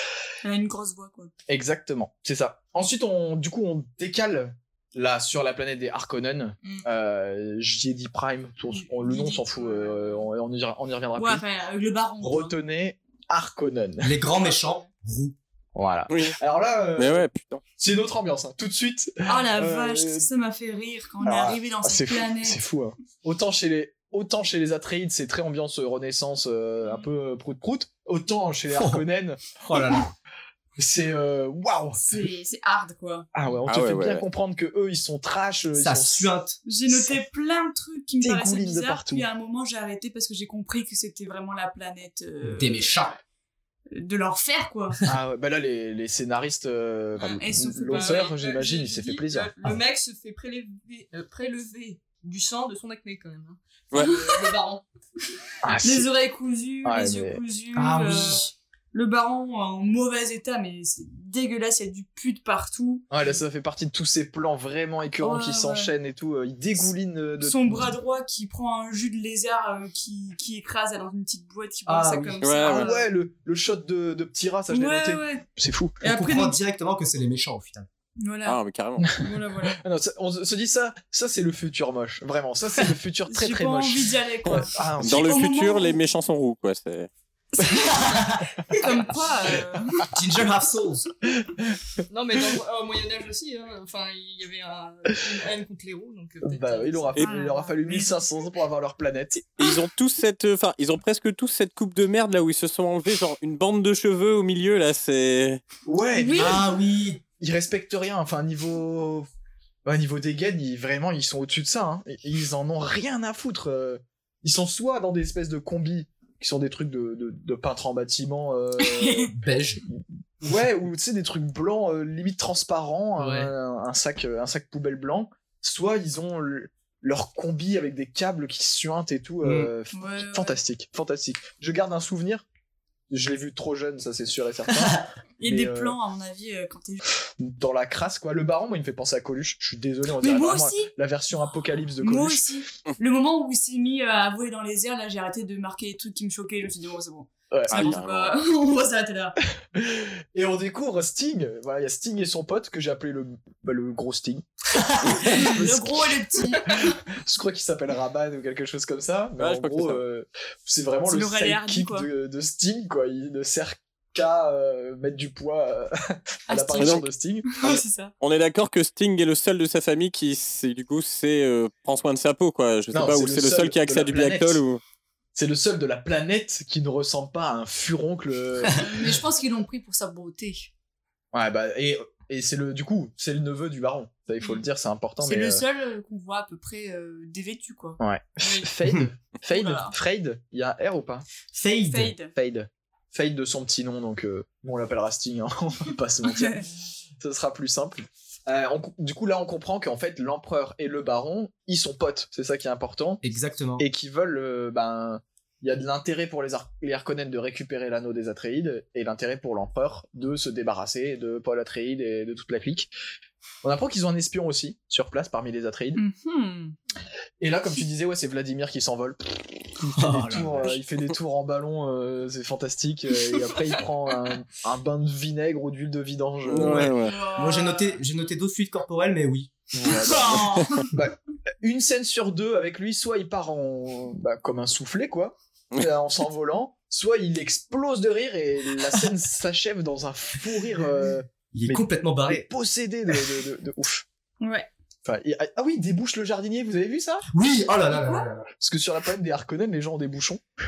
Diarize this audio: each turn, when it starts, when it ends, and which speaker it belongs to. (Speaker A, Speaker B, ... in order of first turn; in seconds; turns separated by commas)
Speaker A: 0.4-1.3, Speaker B: 1.5-11.4, Speaker A: 8.7-10.1, Speaker A: 11.2-12.5, Speaker B: 12.2-14.1, Speaker C: 14.0-15.3, Speaker D: 14.4-14.8, Speaker B: 15.7-17.2, Speaker E: 16.1-16.4, Speaker E: 17.0-17.6, Speaker B: 17.8-20.3, Speaker A: 19.2-22.6, Speaker B: 21.2-30.0, Speaker C: 28.7-29.0, Speaker C: 29.6-30.1, Speaker B: 30.8-32.1, Speaker A: 32.0-33.3, Speaker B: 33.3-36.3, Speaker E: 33.7-34.2, Speaker C: 35.8-36.6, Speaker A: 36.6-42.9, Speaker B: 36.9-37.2, Speaker B: 38.2-39.2, Speaker C: 42.4-43.2, Speaker A: 43.9-45.0, Speaker B: 45.1-49.5, Speaker A: 47.3-48.3, Speaker D: 47.9-54.8, Speaker B: 55.6-56.1, Speaker A: 55.8-63.1, Speaker B: 56.8-57.4, Speaker C: 57.8-58.3, Speaker B: 57.9-58.2, Speaker B: 63.1-68.0, Speaker A: 65.2-65.9, Speaker A: 67.4-72.9, Speaker C: 71.9-72.3, Speaker D: 71.9-73.0, Speaker E: 72.4-72.9, Speaker B: 72.7-76.0, Speaker A: 74.7-75.4, Speaker A: 76.0-76.6, Speaker C: 76.0-77.9, Speaker A: 78.2-78.6, Speaker E: 78.4-79.2, Speaker A: 79.1-79.8, Speaker B: 79.2-85.4, Speaker A: 83.3-86.0, Speaker E: 84.5-87.1, Speaker C: 87.9-88.4, Speaker A: 88.8-90.1, Speaker C: 90.1-91.1, Speaker B: 91.4-91.6, Speaker D: 92.1-97.2, Speaker B: 96.4-99.7, Speaker A: 97.2-98.1, Speaker E: 99.6-105.6, Speaker B: 105.8-106.6, Speaker A: 106.2-106.6, Speaker C: 106.3-107.2, Speaker B: 107.4-109.3, Speaker B: 109.8-119.3, Speaker A: 118.8-119.3, Speaker C: 119.3-119.8, Speaker B: 119.9-132.4, Speaker C: 123.2-123.5, Speaker C: 129.4-129.7, Speaker A: 129.9-130.6, Speaker B: 133.1-135.9, Speaker C: 134.8-135.1, Speaker A: 135.4-137.0, Speaker B: 137.4-142.5, Speaker A: 140.2-140.9, Speaker A: 142.0-149.4, Speaker B: 147.5-148.0, Speaker E: 147.7-148.4, Speaker B: 149.7-154.4, Speaker C: 154.8-155.1, Speaker A: 155.2-156.8, Speaker B: 155.3-156.1, Speaker B: 156.8-167.8, Speaker E: 159.4-160.0, Speaker A: 161.1-162.1, Speaker A: 166.5-168.1, Speaker E: 166.7-167.0, Speaker E: 167.6-174.8, Speaker B: 172.9-174.6, Speaker B: 175.3-179.0, Speaker A: 178.7-180.7, Speaker B: 181.3-185.6, Speaker A: 185.2-188.0, Speaker B: 188.0-191.3, Speaker D: 188.4-188.7, Speaker A: 189.5-189.9, Speaker C: 191.5-192.1, Speaker A: 191.9-192.3, Speaker B: 192.3-196.6, Speaker A: 196.2-196.7, Speaker B: 197.2-203.2, Speaker C: 203.2-203.8, Speaker B: 203.8-212.9, Speaker B: 213.6-216.0, Speaker A: 215.9-216.8, Speaker B: 217.4-226.9, Speaker C: 219.9-220.7, Speaker E: 226.5-227.1, Speaker C: 226.5-229.5, Speaker A: 227.0-228.0, Speaker B: 229.7-244.1, Speaker A: 229.8-230.9, Speaker C: 241.5-242.5, Speaker A: 244.4-244.7, Speaker B: 245.0-247.2, Speaker C: 247.3-248.4, Speaker A: 247.9-248.2, Speaker B: 248.6-250.4